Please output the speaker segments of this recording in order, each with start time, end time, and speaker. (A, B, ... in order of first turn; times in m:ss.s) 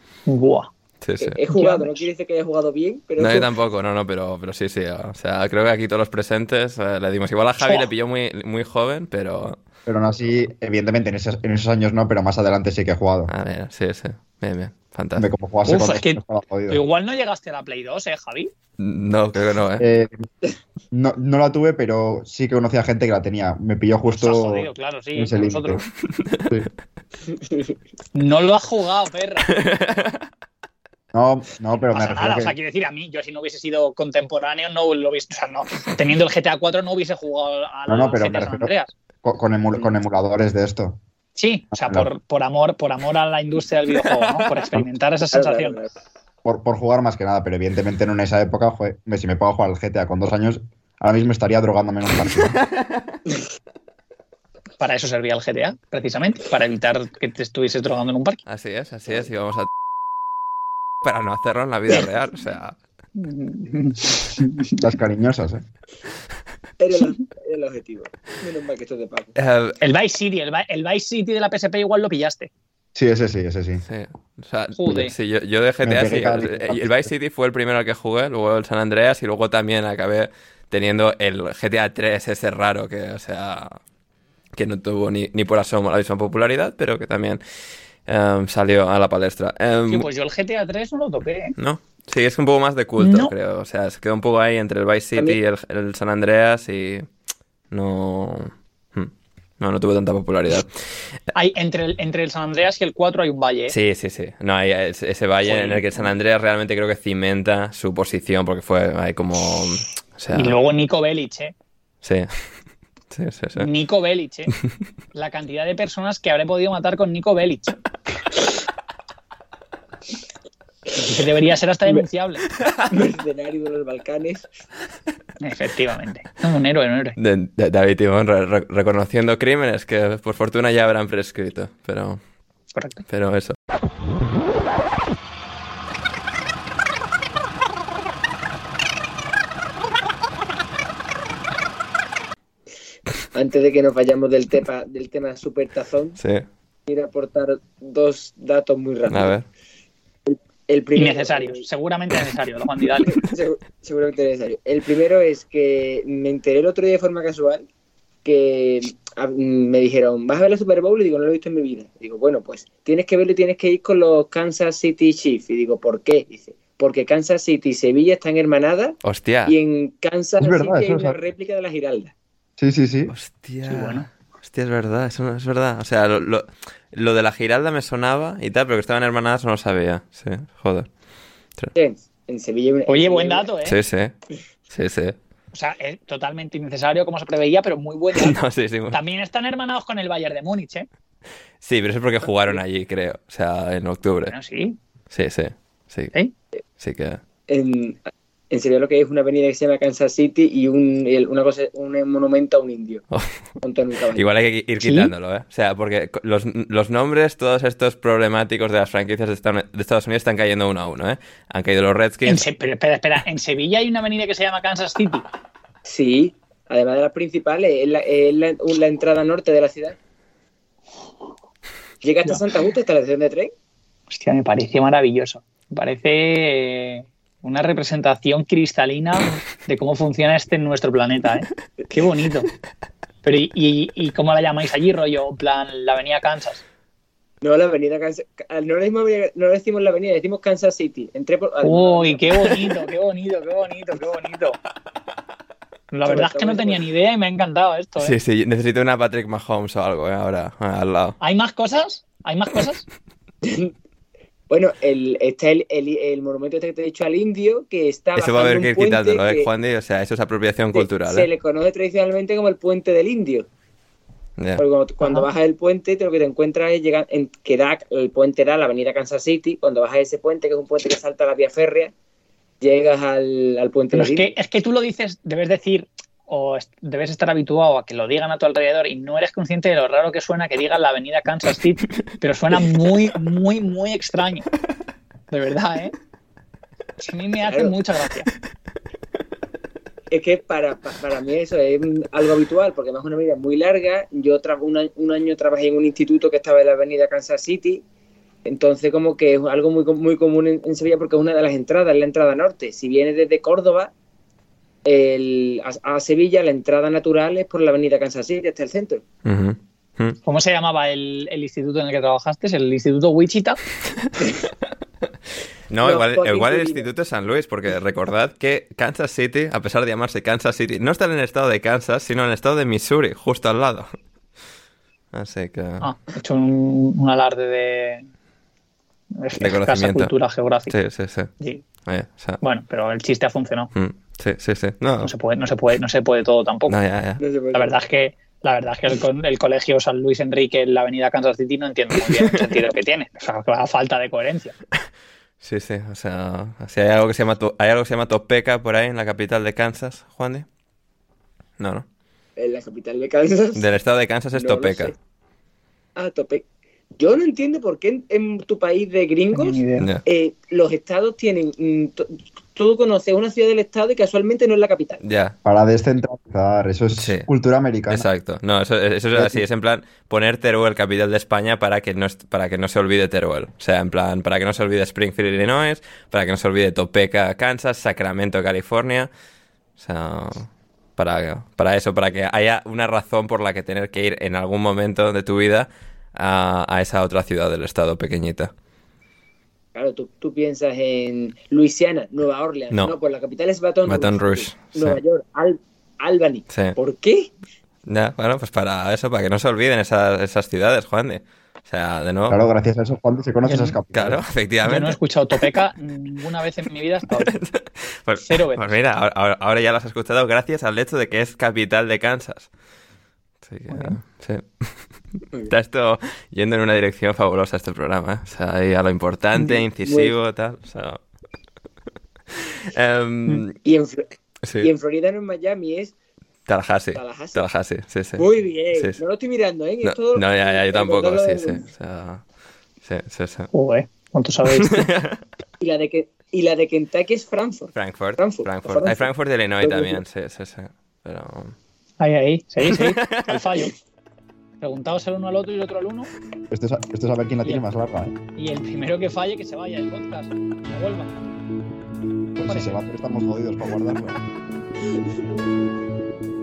0:00.3-0:00.7 A
0:01.0-0:01.4 B
0:01.2-0:03.5 C
0:01.5-0:02.0 A
0:03.2-0:09.6 B
0:07.6-0:07.9 A
0:09.8-0:13.3 D
0:13.3-0:15.3 B
0:15.2-0:16.8 D
0:15.6-0:18.5 A
0:18.8-0:19.8 B
0:19.8-0:20.2 D
0:20.9-0:25.8 D
0:24.1-0:25.8 A
0:26.2-0:26.5 B
0:28.1-0:29.5 A
0:29.5-0:30.3 B
0:31.1-0:32.5 D
0:31.9-0:38.9 A
0:37.9-0:38.7 D
0:39.2-0:41.0 D
0:41.4-0:45.8 A
0:41.7-0:42.1 D
0:45.3-0:45.9 C
0:46.4-0:52.6 D
0:54.8-0:58.4 A
0:58.5-0:59.7 B
1:01.0-1:02.8 B
1:03.2-1:04.9 A
1:04.8-1:05.6 D
1:06.8-1:09.3 C
1:09.4-1:09.8 B
1:09.8-1:12.5 A
1:12.9-1:13.8 D
1:13.8-1:23.8 B
1:14.8-1:15.1 A
1:15.8-1:17.1 D
1:24.5-1:27.4 B
1:28.0-1:30.1 B
1:29.9-1:31.5 A
1:31.6-1:37.1 B
1:33.0-1:33.3 A
1:37.7-1:41.2 B
1:41.3-1:43.7 A
1:43.7-1:50.6 B
1:45.4-1:46.1 A
1:50.3-1:51.5 A
1:52.0-1:53.7 B
1:53.6-1:54.5 A
1:55.1-1:57.8 A
2:01.0-2:01.2 C
2:01.0-2:02.4 A
2:02.9-2:04.5 C
2:05.4-2:07.2 A
2:07.2-2:12.2 B
2:12.7-2:13.0 A
2:13.1-2:13.6 B
2:23.3-2:26.2 C
2:26.2-2:26.4 B
2:26.9-2:29.4 C
2:29.1-2:29.4 B
2:30.2-2:31.6 C
2:30.9-2:33.2 A
2:33.0-2:37.7 C
2:38.2-2:52.1 C
2:49.0-2:49.6 B
2:50.4-2:51.2 D
2:52.6-2:53.1 D
2:53.1-3:00.9 B
2:53.6-2:54.1 A
3:01.7-3:03.5 C
3:02.9-3:03.8 A
3:03.6-3:04.1 B
3:04.7-3:05.2 B
3:05.5-3:08.4 A
3:08.1-3:09.0 B
3:08.9-3:10.9 A
3:11.6-3:14.3 B
3:14.3-3:14.8 A
3:15.1-3:16.1 B
3:16.8-3:17.2 B
3:17.5-3:23.0 C
3:23.1-3:23.4 B
3:23.6-3:24.3 C
3:24.1-3:32.4 B
3:24.8-3:25.1 A
3:32.2-3:35.2 A
3:35.8-3:40.0 C
3:42.0-3:43.5 C
3:44.1-3:52.5 A
3:53.2-3:56.6 A
3:57.4-4:02.4 C
4:01.6-4:04.6 A
4:05.9-4:08.1 A
4:06.0-4:06.8 C
4:08.0-4:11.2 B
4:11.2-4:12.8 A
4:13.4-4:13.7 C
4:14.5-4:19.5 C
4:18.2-4:21.3 B
4:20.7-4:23.5 C
4:24.4-4:24.6 B
4:24.6-4:31.9 C
4:25.0-4:25.3 A
4:32.6-4:34.3 C
4:33.9-4:44.4 A
4:45.3-4:45.9 A
4:47.0-4:48.3 A
4:47.5-4:47.8 C
4:50.1-4:57.8 C
4:58.4-5:03.9 C
5:04.8-5:09.0 C
5:09.2-5:10.2 B
5:10.2-5:13.6 A
5:15.7-5:24.0 B
5:15.8-5:16.8 C
5:25.1-5:25.9 B
5:25.8-5:28.0 A
5:29.2-5:30.7 A
5:29.4-5:30.1 B
5:30.7-5:31.3 B
5:31.4-5:31.6 A
5:31.8-5:32.4 B
5:32.4-5:33.7 A
5:33.7-5:35.1 B
5:35.0-5:36.8 A
5:36.7-5:37.2 B
5:37.2-5:37.8 C
5:37.5-5:44.5 A
5:45.4-5:50.4 B
5:51.6-5:51.8 B
5:52.4-5:53.6 C
5:53.5-5:54.9 B
5:54.3-5:54.9 C
5:56.0-6:05.0 C
5:59.3-5:59.9 A
5:59.8-6:00.0 B
6:05.0-6:05.4 B
6:05.4-6:08.1 D
6:07.0-6:07.3 B
6:07.9-6:19.1 B
6:09.1-6:09.4 D
6:19.8-6:28.5 B
6:29.7-6:37.3 C
6:33.8-6:35.0 B
6:36.5-6:36.8 B
6:37.9-6:42.4 B
6:42.3-6:44.2 D
6:43.4-6:43.8 A
6:43.9-6:45.6 B
6:44.6-6:47.3 A
6:47.1-6:52.5 B
6:48.2-6:48.7 A
6:53.4-7:01.0 B
6:53.7-6:54.0 A
6:59.8-7:00.1 C
7:02.3-7:03.6 B
7:03.6-7:04.1 C
7:04.6-7:05.9 C
7:06.5-7:09.0 B
7:06.9-7:07.5 C
7:08.2-7:11.6 C
7:09.8-7:12.2 B
7:12.8-7:13.5 B
7:13.5-7:14.9 A
7:14.4-7:15.2 B
7:15.6-7:19.1 C
7:17.7-7:21.6 B
7:19.6-7:20.0 C
7:22.0-7:23.7 A
7:22.6-7:23.4 B
7:24.6-7:26.1 A
7:26.5-7:28.2 D
7:28.4-7:31.2 A
7:32.4-7:34.2 D
7:32.4-7:32.8 A